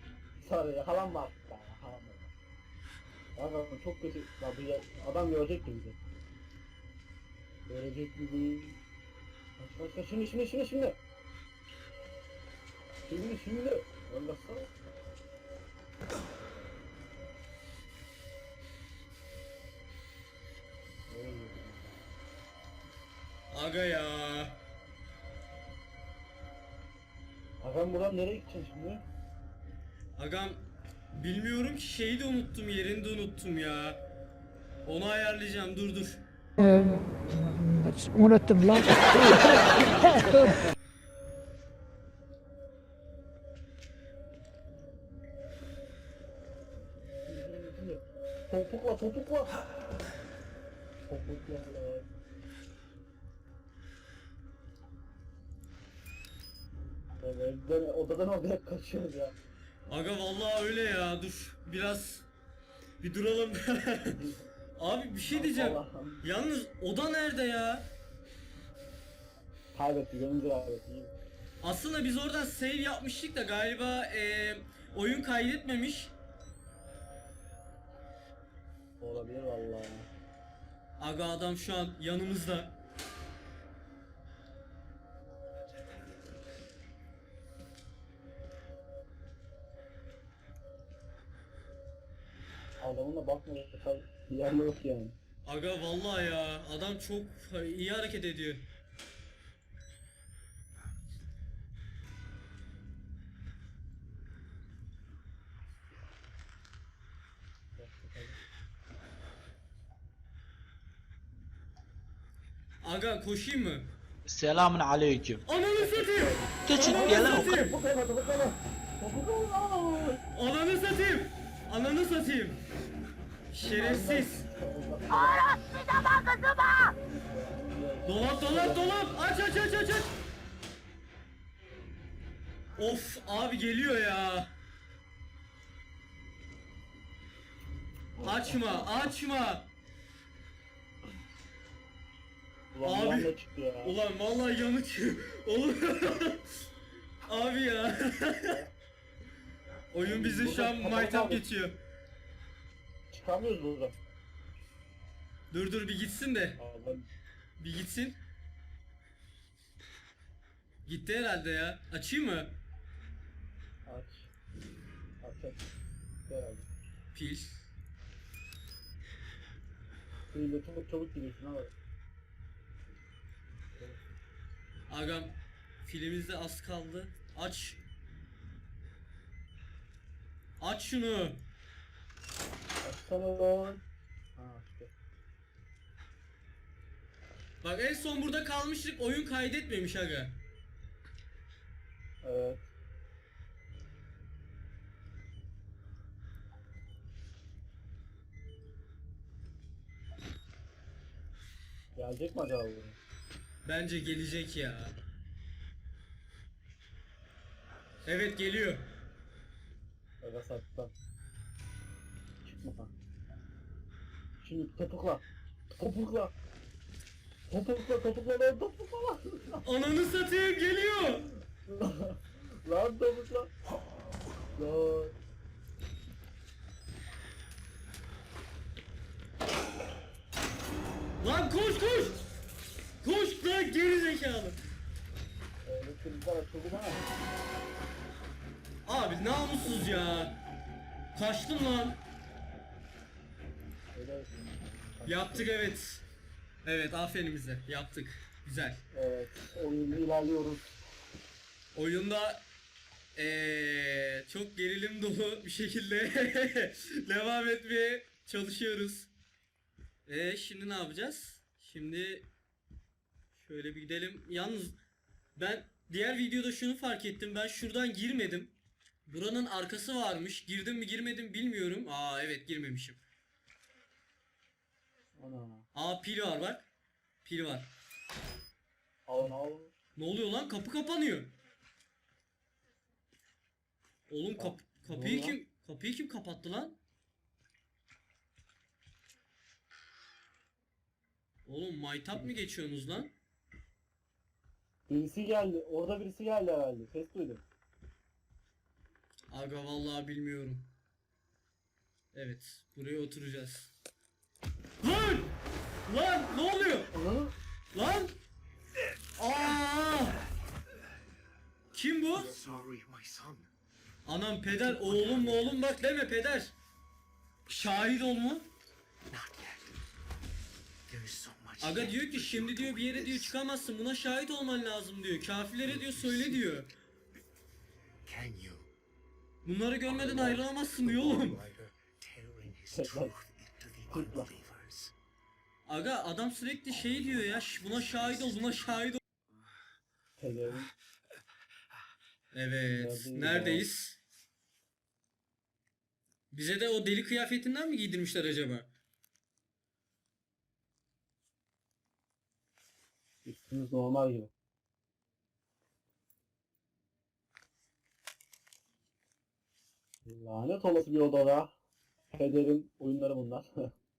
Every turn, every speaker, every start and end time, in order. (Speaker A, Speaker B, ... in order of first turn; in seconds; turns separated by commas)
Speaker A: 0.4-2.3, Speaker A: 3.4-6.0, Speaker A: 7.7-8.8, Speaker A: 9.6-11.0, Speaker A: 13.1-14.7, Speaker A: 21.1-22.0, Speaker B: 23.5-24.6, Speaker A: 27.6-29.0, Speaker B: 30.2-34.0, Speaker B: 34.8-36.2, Speaker C: 36.6-40.5, Speaker A: 47.3-49.6, Speaker A: 51.1-52.1, Speaker A: 57.2-59.4, Speaker B: 59.9-62.2, Speaker B: 63.0-64.2, Speaker A: 64.1-64.5, Speaker B: 64.8-67.9, Speaker A: 65.3-66.2, Speaker A: 69.7-71.1, Speaker B: 71.6-76.1, Speaker A: 79.0-80.1, Speaker B: 81.0-82.8, Speaker A: 92.8-95.2, Speaker B: 95.4-98.7, Speaker A: 107.8-108.4, Speaker B: 112.8-113.9, Speaker D: 114.2-115.4, Speaker B: 115.5-117.8, Speaker A: 115.8-120.2, Speaker D: 116.7-117.6, Speaker B: 120.3-122.6, Speaker B: 123.5-124.4, Speaker A: 123.7-125.7, Speaker A: 126.6-129.2, Speaker B: 128.0-130.1, Speaker B: 132.8-134.5, Speaker A: 138.2-138.9, Speaker B: 138.2-139.7, Speaker A: 142.7-144.0, Speaker B: 142.8-146.4, Speaker B: 147.3-148.6, Speaker A: 148.4-148.7, Speaker B: 149.9-151.8, Speaker A: 150.0-151.4, Speaker A: 153.1-153.9, Speaker B: 155.5-156.6, Speaker A: 156.6-157.1, Speaker B: 157.6-158.2, Speaker B: 160.8-162.6, Speaker A: 163.8-164.3, Speaker A: 165.2-165.6, Speaker A: 166.3-166.7, Speaker B: 167.1-167.7, Speaker A: 170.3-171.7, Speaker B: 174.9-177.8, Speaker B: 180.6-181.4, Speaker A: 182.8-183.8, Speaker A: 184.3-184.9, Speaker B: 187.6-190.4, Speaker A: 192.2-192.7, Speaker A: 201.9-203.0, Speaker B: 203.6-204.9, Speaker B: 208.0-208.9, Speaker A: 210.2-210.9, Speaker A: 212.4-212.9, Speaker A: 214.4-216.3, Speaker A: 217.5-219.6, Speaker B: 219.6-221.3, Speaker A: 221.6-223.5, Speaker A: 224.6-225.1, Speaker B: 231.2-232.2, Speaker B: 233.0-234.6, Speaker A: 235.6-237.1, Speaker B: 238.8-240.4, Speaker A: 239.6-240.3, Speaker B: 241.1-242.0, Speaker A: 243.9-245.5, Speaker B: 245.1-246.0, Speaker B: 246.6-248.8, Speaker A: 248.9-250.7, Speaker B: 251.7-252.4, Speaker B: 253.2-259.1, Speaker B: 260.1-262.3, Speaker B: 263.3-264.8, Speaker B: 265.4-268.5, Speaker B: 269.1-273.0, Speaker A: 275.2-275.7, Speaker B: 275.7-276.7, Speaker B: 277.2-277.7, Speaker A: 279.1-279.7, Speaker B: 279.9-281.3, Speaker B: 284.1-286.8, Speaker A: 284.3-285.4, Speaker B: 291.4-293.1, Speaker A: 294.9-297.4, Speaker B: 299.3-300.7, Speaker B: 302.1-303.7, Speaker B: 304.8-305.3, Speaker B: 305.9-306.9, Speaker A: 306.9-307.3, Speaker B: 307.7-308.1, Speaker B: 309.2-310.2, Speaker B: 311.7-312.3, Speaker E: 312.1-313.5, Speaker B: 314.0-316.5, Speaker A: 314.8-315.2, Speaker E: 317.5-317.7, Speaker B: 317.5-318.5, Speaker E: 319.1-319.8, Speaker E: 320.9-323.3, Speaker B: 321.6-326.7, Speaker E: 325.8-326.4, Speaker E: 328.0-328.7, Speaker B: 329.4-331.4, Speaker E: 330.0-334.9, Speaker A: 332.7-333.1, Speaker A: 333.9-334.3, Speaker B: 335.6-339.0, Speaker A: 340.2-340.7, Speaker B: 342.3-344.0, Speaker A: 342.8-343.6, Speaker B: 346.3-348.7, Speaker A: 353.2-354.3, Speaker A: 360.0-361.5, Speaker A: 362.1-363.7